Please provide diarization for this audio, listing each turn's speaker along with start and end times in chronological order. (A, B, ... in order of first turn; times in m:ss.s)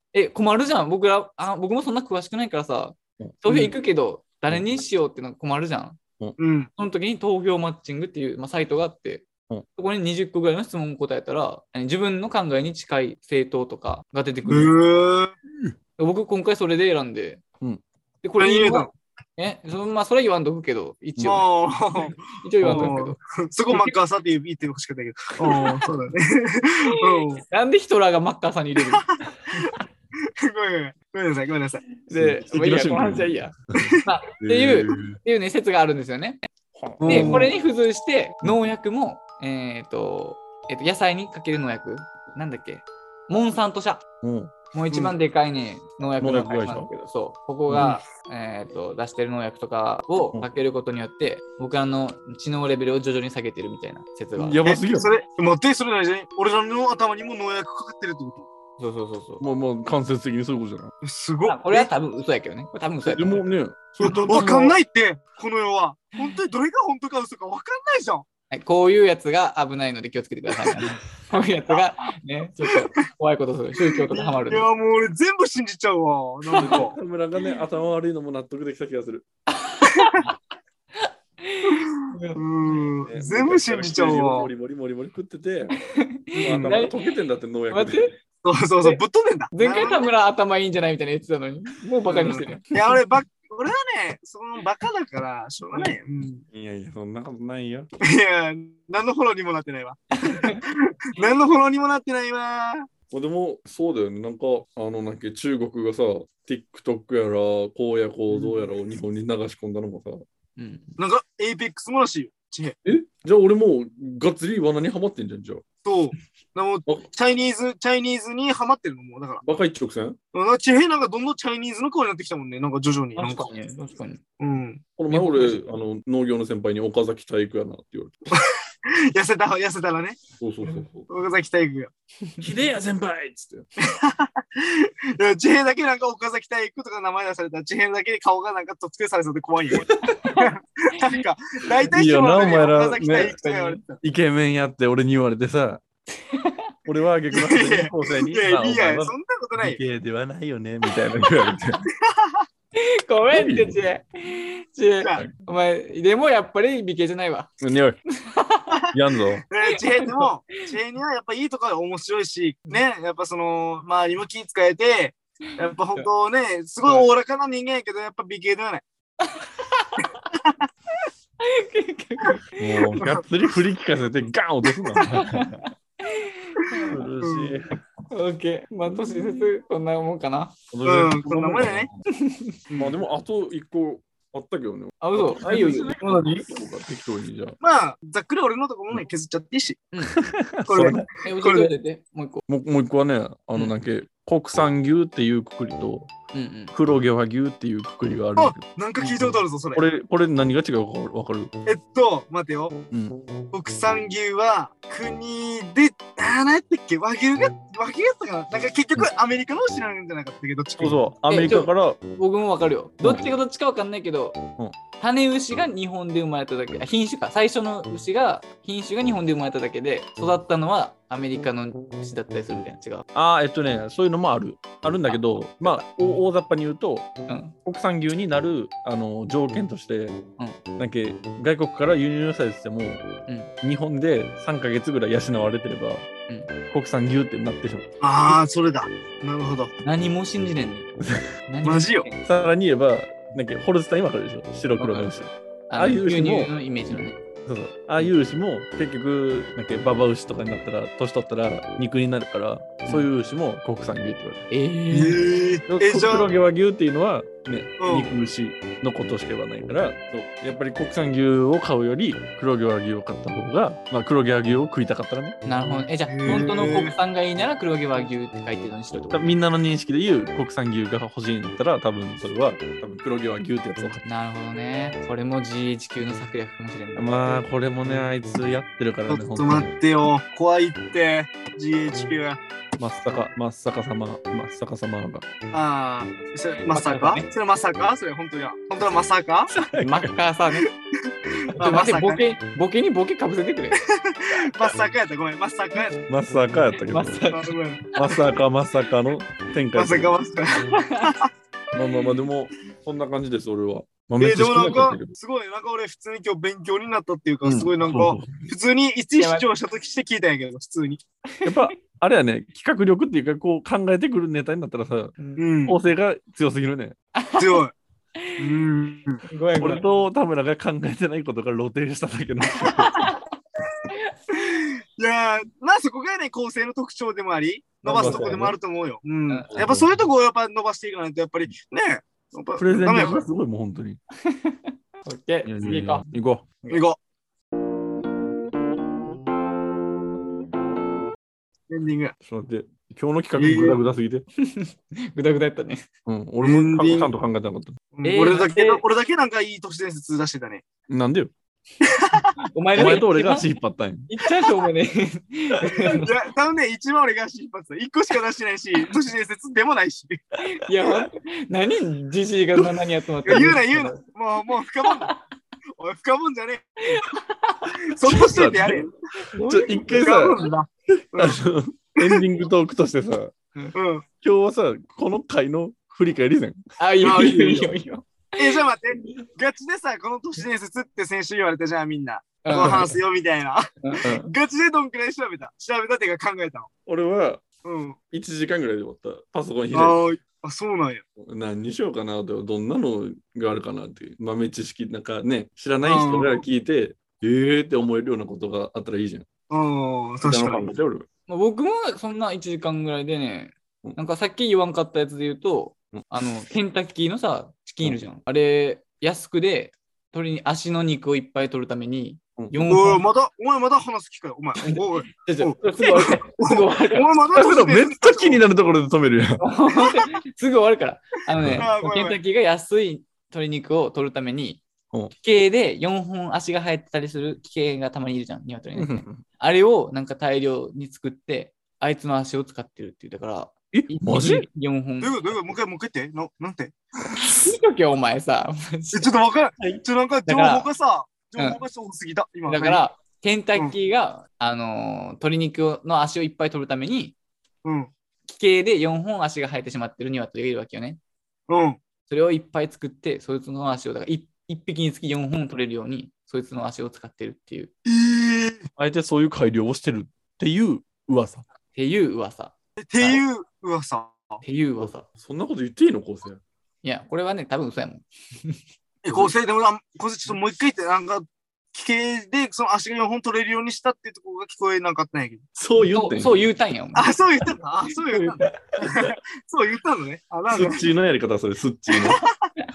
0:00.1-0:06.0 A
0:03.5-0:03.7 B
0:06.4-0:06.7 B
0:06.8-0:14.7 A
0:14.5-0:15.3 B
0:16.0-0:17.4 A
0:18.2-0:23.9 A
0:18.4-0:18.9 B
0:21.2-0:27.4 B
0:22.6-0:22.9 C
0:25.4-0:25.8 A
0:27.0-0:29.1 A
0:28.8-0:29.8 B
0:30.4-0:31.8 B
0:32.0-0:36.4 A
0:32.1-0:35.2 C
0:33.8-0:34.0 B
0:36.7-0:37.5 C
0:37.0-0:37.5 B
0:37.0-0:44.0 A
0:44.2-0:44.5 C
0:44.7-0:54.6 A
0:46.2-0:46.9 C
0:47.7-0:48.0 C
0:54.4-0:55.1 C
0:54.6-0:58.5 B
0:58.8-0:59.4 A
0:59.4-1:00.9 C
1:01.0-1:01.9 B
1:01.4-1:03.4 A
1:03.1-1:04.8 C
1:04.0-1:08.2 B
1:08.5-1:14.7 A
1:12.6-1:13.0 B
1:14.0-1:17.0 B
1:16.5-1:16.8 A
1:16.6-1:19.2 C
1:19.5-1:20.3 A
1:19.8-1:20.3 B
1:21.0-1:22.4 A
1:21.6-1:24.5 B
1:23.0-1:25.8 C
1:25.8-1:27.0 A
1:26.3-1:26.7 B
1:26.4-1:28.1 C
1:27.7-1:28.1 A
1:28.4-1:30.1 B
1:29.5-1:32.7 A
1:32.1-1:36.4 B
1:36.5-1:37.9 C
1:38.0-1:42.9 B
1:40.2-1:40.6 A
1:43.1-1:50.2 C
1:50.6-1:51.0 A
1:51.0-1:52.8 B
1:52.8-1:55.6 C
1:55.8-1:59.4 B
1:59.4-2:00.2 C
2:00.3-2:03.5 B
2:03.2-2:04.2 A
2:04.4-2:04.8 B
2:05.0-2:08.1 C
2:05.1-2:05.6 A
2:08.3-2:10.2 B
2:10.4-2:11.1 C
2:11.1-2:11.9 B
2:12.4-2:13.6 C
2:13.8-2:24.0 B
2:20.2-2:20.5 A
2:21.9-2:23.3 C
2:23.3-2:23.8 A
2:24.0-2:25.8 C
2:26.2-2:26.6 A
2:26.8-2:31.8 C
2:27.3-2:29.8 B
2:31.9-2:32.4 B
2:32.7-2:37.5 A
2:33.3-2:33.8 C
2:37.6-2:38.0 C
2:38.2-2:38.8 A
2:38.9-2:39.4 C
2:39.5-2:48.8 B
2:39.7-2:40.3 A
2:49.2-2:50.1 A
2:50.3-2:50.6 B
2:51.4-2:53.0 A
2:52.6-2:55.5 C
2:53.0-2:53.2 B
2:55.1-2:57.0 A
2:56.6-2:57.6 B
2:56.8-2:57.8 C
2:58.1-3:00.5 A
3:00.7-3:02.0 C
3:00.8-3:01.9 B
3:02.1-3:02.6 A
3:02.7-3:03.0 B
3:02.8-3:07.6 C
3:05.0-3:06.0 A
3:06.0-3:06.5 B
3:07.6-3:09.8 B
3:10.1-3:11.1 C
3:10.7-3:11.7 B
3:11.2-3:12.4 A
3:12.5-3:16.1 C
3:16.3-3:16.7 A
3:16.7-3:19.2 C
3:18.4-3:19.8 B
3:19.7-3:21.5 C
3:21.6-3:22.7 B
3:22.9-3:23.2 C
3:23.5-3:31.0 B
3:30.8-3:32.0 C
3:31.3-3:34.4 A
3:33.0-3:33.3 C
3:35.0-3:43.0 A
3:43.1-3:47.1 C
3:45.6-3:45.8 A
3:47.3-3:47.5 A
3:47.6-3:50.2 C
3:50.8-3:53.1 C
3:53.6-3:56.0 C
3:56.7-3:57.8 C
3:58.0-3:59.7 B
3:59.8-4:00.9 A
4:01.5-4:02.2 A
4:01.6-4:02.0 B
4:02.2-4:06.5 C
4:04.8-4:05.2 A
4:05.7-4:07.2 A
4:07.4-4:14.4 C
4:14.5-4:15.2 A
4:14.9-4:16.3 B
4:15.7-4:25.4 C
4:17.8-4:18.1 B
4:25.4-4:29.3 A
4:26.1-4:26.9 B
4:26.2-4:26.5 C
4:29.1-4:34.0 C
4:34.0-4:37.4 A
4:37.0-4:39.7 C
4:39.1-4:42.4 B
4:42.8-4:45.2 C
4:45.5-4:49.5 B
4:46.7-4:47.2 A
4:49.7-4:50.1 C
4:49.7-4:50.7 A
4:51.1-4:52.2 B
4:51.6-4:53.8 A
4:53.9-4:56.0 B
4:56.1-4:57.2 C
4:56.8-4:58.1 A
4:57.3-4:57.8 B
4:57.9-5:00.1 C
4:59.7-5:01.3 B
5:01.7-5:05.1 C
5:04.2-5:11.0 B
5:07.4-5:08.4 C
5:09.2-5:09.5 A
5:11.3-5:11.7 A
5:11.4-5:15.1 C
5:15.2-5:15.4 A
5:15.4-5:15.8 B
5:15.6-5:16.9 C
5:17.1-5:17.6 A
5:17.4-5:17.7 B
5:18.2-5:18.6 A
5:18.4-5:19.2 B
5:19.2-5:19.9 A
5:19.6-5:23.1 C
5:22.7-5:23.2 A
5:23.9-5:24.4 A
5:24.3-5:33.2 B
5:27.8-5:28.6 C
5:27.9-5:28.5 A
5:29.3-5:29.6 A
5:29.5-5:29.9 C
5:32.6-5:34.0 C
5:34.2-5:36.0 A
5:35.4-5:36.4 C
5:36.7-5:37.0 B
5:41.7-5:42.1 B
5:42.2-5:44.2 C
5:43.4-5:43.8 B
5:44.4-5:45.8 A
5:46.0-5:47.8 C
5:46.4-5:47.1 B
5:47.9-5:50.6 B
5:48.0-5:48.8 A
5:50.9-5:51.3 C
5:51.8-5:52.3 B
5:52.4-5:53.5 A
5:52.7-5:54.1 C
5:54.1-5:56.1 A
5:55.7-6:00.2 B
6:00.5-6:04.0 A
6:03.2-6:05.1 B
6:04.8-6:05.2 A
6:05.8-6:07.1 B
6:06.9-6:07.6 A
6:07.8-6:08.9 B
6:08.0-6:08.8 C
6:09.3-6:10.3 A
6:09.4-6:13.3 C
6:10.0-6:11.4 B
6:12.0-6:12.2 B
6:13.7-6:14.0 B
6:14.2-6:16.6 C
6:16.8-6:19.2 A
6:17.0-6:17.7 B
6:18.4-6:26.7 B
6:22.4-6:22.9 A
6:23.8-6:24.3 A
6:26.8-6:27.4 C
6:27.6-6:28.0 B
6:28.1-6:30.0 C
6:29.7-6:31.0 B
6:31.2-6:39.3 C
6:35.8-6:36.4 B
6:39.5-6:40.6 B
6:40.2-6:41.1 C
6:41.3-6:53.0 A
6:52.4-6:52.7 C
6:52.7-6:58.4 B
6:55.2-6:56.2 C
6:55.6-6:57.1 A
6:57.3-6:59.4 C
6:59.4-7:04.6 A
7:01.4-7:01.6 C
7:01.5-7:02.2 B
7:05.2-7:15.1 A
7:08.7-7:09.2 C
7:13.7-7:14.5 C
7:15.0-7:16.7 B
7:17.1-7:17.5 C
7:17.3-7:19.1 A
7:18.9-7:22.8 B
7:20.3-7:20.7 A
7:22.5-7:27.2 A
7:27.6-7:27.9 B
7:28.3-7:31.0 A
7:31.5-7:31.8 B
7:32.1-7:37.7 A
7:37.8-7:38.7 B
7:38.8-7:41.4 C
7:41.7-7:43.2 A
7:42.8-7:44.4 B
7:44.4-7:45.0 A
7:44.8-7:46.4 C
7:46.8-7:48.6 A
7:49.0-7:55.4 B
7:55.6-7:56.4 C
7:55.8-7:57.1 A
7:56.9-8:00.9 B
7:58.0-7:58.5 A
8:00.5-8:02.2 C
8:02.1-8:02.4 B